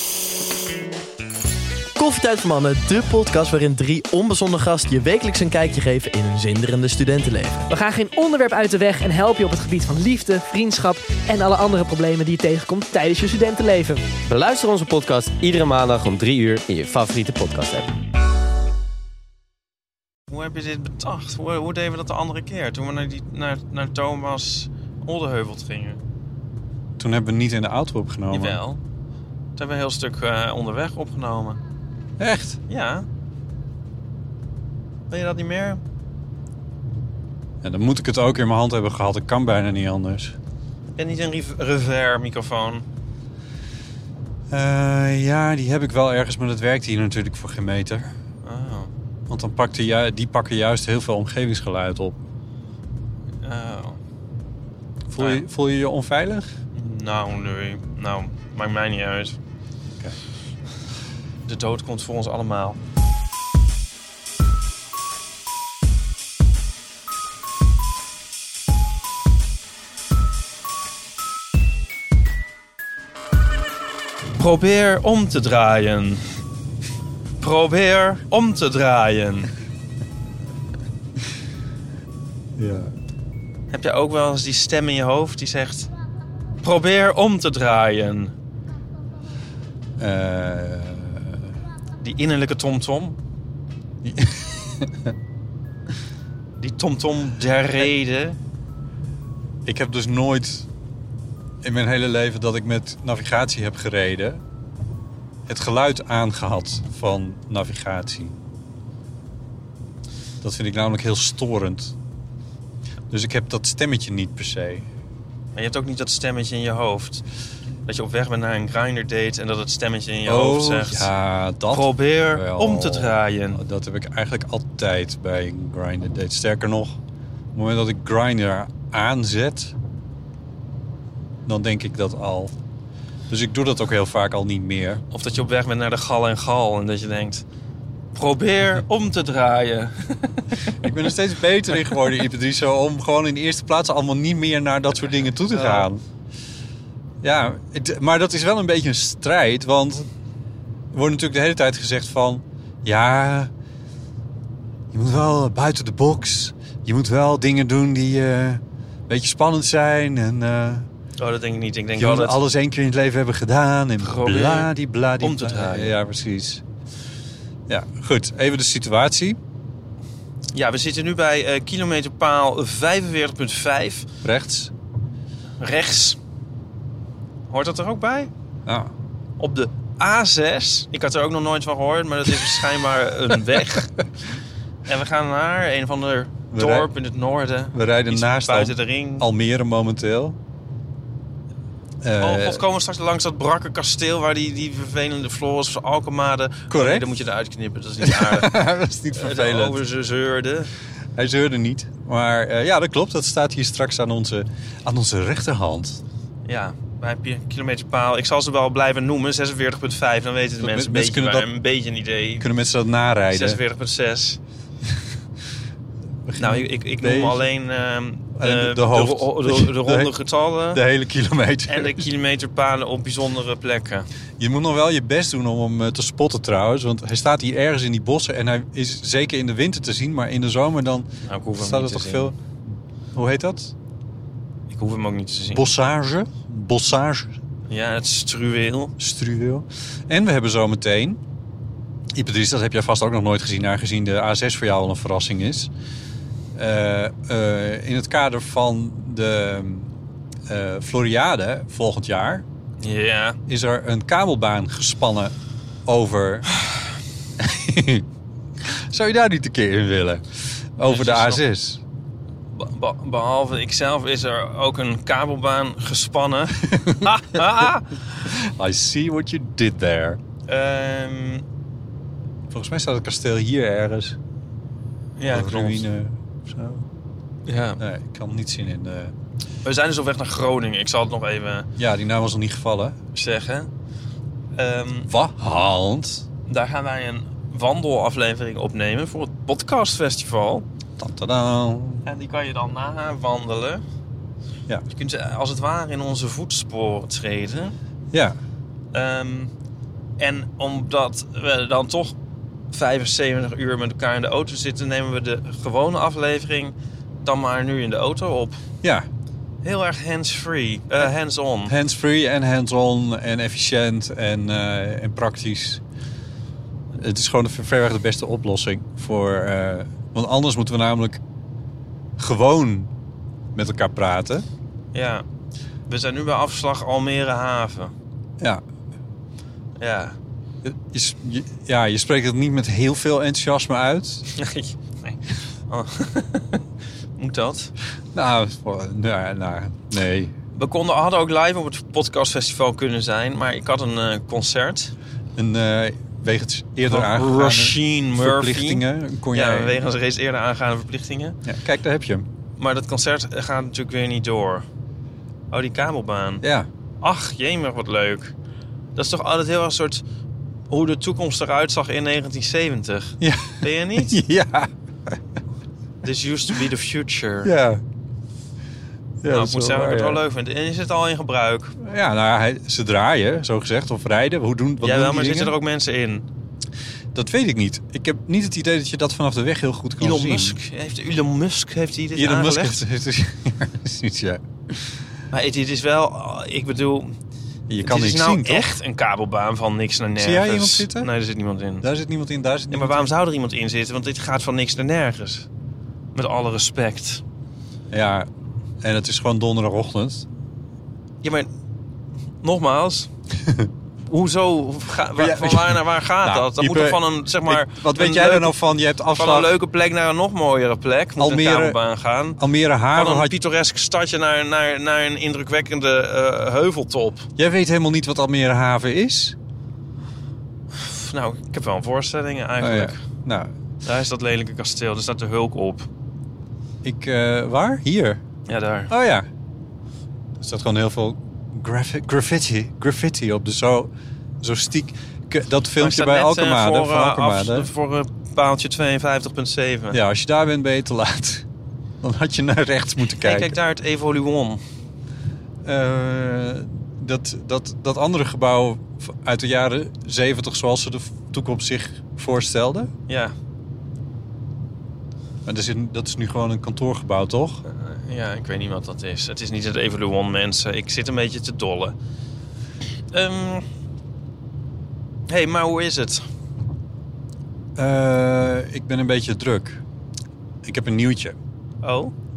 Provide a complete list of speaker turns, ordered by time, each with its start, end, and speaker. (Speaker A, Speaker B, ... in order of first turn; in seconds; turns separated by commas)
Speaker A: 2.0-7.7, Speaker B: 7.7-14.1, Speaker C: 14.3-17.9, Speaker D: 20.3-26.0, Speaker E: 27.0-28.6, Speaker D: 28.3-28.8, Speaker D: 29.6-31.6, Speaker E: 32.2-32.6, Speaker D: 32.7-33.1, Speaker D: 35.1-35.8, Speaker E: 37.6-40.4, Speaker D: 41.0-42.9, Speaker E: 44.5-48.1, Speaker D: 48.4-48.9, Speaker E: 49.3-52.2, Speaker D: 53.4-54.0, Speaker E: 55.1-56.5, Speaker D: 55.2-55.4, Speaker D: 56.8-59.4, Speaker D: 61.5-62.8, Speaker D: 74.4-76.2, Speaker D: 77.4-79.5, Speaker E: 82.6-82.9, Speaker D: 83.7-85.9, Speaker D: 86.6-88.3, Speaker E: 90.0-91.5, Speaker D: 92.0-93.2, Speaker E: 94.0-95.1, Speaker D: 96.6-98.4, Speaker E: 99.7-100.7, Speaker E: 101.6-104.4, Speaker E: 105.5-108.4, Speaker E: 110.4-112.0, Speaker E: 113.1-114.9, Speaker D: 115.5-117.2, Speaker D: 117.9-121.1, Speaker E: 120.3-127.0, Speaker D: 121.7-123.6, Speaker E: 127.5-129.8, Speaker E: 131.5-132.5, Speaker E: 133.3-135.0, Speaker D: 135.1-137.4, Speaker D: 138.1-140.6, Speaker E: 140.8-146.0, Speaker D: 145.5-145.9, Speaker E: 147.2-150.1, Speaker E: 150.9-153.5, Speaker E: 154.9-160.9, Speaker D: 161.2-162.4, Speaker E: 162.0-166.6, Speaker D: 164.0-165.9, Speaker E: 167.7-169.4, Speaker D: 170.5-174.1, Speaker E: 174.2-174.7, Speaker D: 175.6-176.2, Speaker D: 177.5-178.3, Speaker E: 178.7-178.9, Speaker D: 179.4-184.0, Speaker D: 184.9-189.3, Speaker E: 186.5-186.9, Speaker E: 187.7-190.4, Speaker E: 192.0-192.6, Speaker D: 192.2-198.5, Speaker E: 196.7-197.1, Speaker E: 198.0-199.8, Speaker D: 199.2-200.7, Speaker E: 201.2-206.0, Speaker D: 206.5-212.5, Speaker E: 210.6-211.5, Speaker E: 212.4-213.6, Speaker D: 213.3-214.4, Speaker E: 216.3-217.5, Speaker D: 216.4-220.8, Speaker E: 218.4-220.2, Speaker E: 220.7-222.1, Speaker D: 221.7-224.1, Speaker E: 224.4-232.4, Speaker D: 231.3-232.3, Speaker E: 233.1-233.7, Speaker D: 234.7-235.7, Speaker E: 235.5-237.3, Speaker D: 237.7-238.9, Speaker E: 239.0-241.2, Speaker E: 242.1-245.7, Speaker E: 246.6-249.9, Speaker E: 250.5-252.4, Speaker D: 252.8-253.4, Speaker E: 253.5-255.3, Speaker E: 255.9-256.5, Speaker E: 257.4-258.1, Speaker E: 258.6-261.8, Speaker D: 260.9-261.4, Speaker D: 262.5-267.9, Speaker E: 266.7-267.1, Speaker E: 268.3-270.2, Speaker D: 270.5-271.4, Speaker E: 272.5-274.2, Speaker D: 275.2-275.9, Speaker E: 275.3-276.9, Speaker D: 277.5-277.8, Speaker E: 277.8-279.1, Speaker D: 279.6-281.7, Speaker E: 281.8-283.0, Speaker D: 283.1-283.7, Speaker D: 284.6-285.1, Speaker E: 285.1-286.2, Speaker D: 286.5-290.6, Speaker E: 291.0-292.1, Speaker D: 292.1-293.8, Speaker D: 294.9-297.8, Speaker D: 298.9-299.5, Speaker D: 300.2-302.1, Speaker D: 302.7-308.6, Speaker D: 309.6-311.7, Speaker E: 311.7-315.8, Speaker E: 316.9-321.2, Speaker E: 322.2-322.9, Speaker E: 323.6-324.4, Speaker D: 324.9-325.2, Speaker D: 325.9-327.9, Speaker D: 329.8-330.2, Speaker E: 330.6-334.3, Speaker D: 334.3-336.6, Speaker D: 337.2-337.7, Speaker E: 338.1-340.3, Speaker D: 340.6-344.9, Speaker E: 345.4-349.8, Speaker D: 346.9-351.4, Speaker E: 351.5-352.3, Speaker D: 352.6-354.6, Speaker D: 355.5-356.4, Speaker E: 356.4-356.7, Speaker D: 357.0-358.3, Speaker D: 359.0-360.0, Speaker D: 360.7-364.2, Speaker E: 363.2-365.1, Speaker D: 366.0-367.5, Speaker E: 367.4-367.8, Speaker E: 369.2-370.2, Speaker D: 369.3-371.8, Speaker E: 371.8-375.6, Speaker D: 374.8-376.3, Speaker E: 377.1-380.6, Speaker D: 380.0-382.8, Speaker E: 382.2-384.9, Speaker D: 385.3-387.2, Speaker E: 387.7-388.7, Speaker D: 387.8-391.9, Speaker E: 390.2-391.1, Speaker E: 391.8-393.1, Speaker D: 392.7-395.5, Speaker D: 396.1-397.2, Speaker E: 397.9-398.3, Speaker E: 398.8-400.3, Speaker D: 401.2-401.5, Speaker D: 402.4-403.1, Speaker D: 404.1-408.6, Speaker E: 405.1-409.6, Speaker D: 409.1-412.4, Speaker E: 411.2-411.8, Speaker E: 412.4-413.4, Speaker D: 412.9-417.3, Speaker E: 417.4-419.4, Speaker D: 420.7-423.0, Speaker E: 422.6-423.5, Speaker D: 423.9-425.9, Speaker E: 426.8-428.2, Speaker D: 428.5-428.9, Speaker E: 428.9-429.3, Speaker E: 430.4-437.7, Speaker D: 435.8-440.0, Speaker E: 439.9-441.5, Speaker E: 442.0-443.6, Speaker D: 443.2-444.6, Speaker E: 445.6-452.9, Speaker D: 453.1-453.3, Speaker E: 455.4-457.6, Speaker D: 457.7-462.0, Speaker D: 463.1-463.6, Speaker D: 465.3-466.2, Speaker E: 467.8-469.8, Speaker E: 470.6-471.4, Speaker D: 471.8-472.1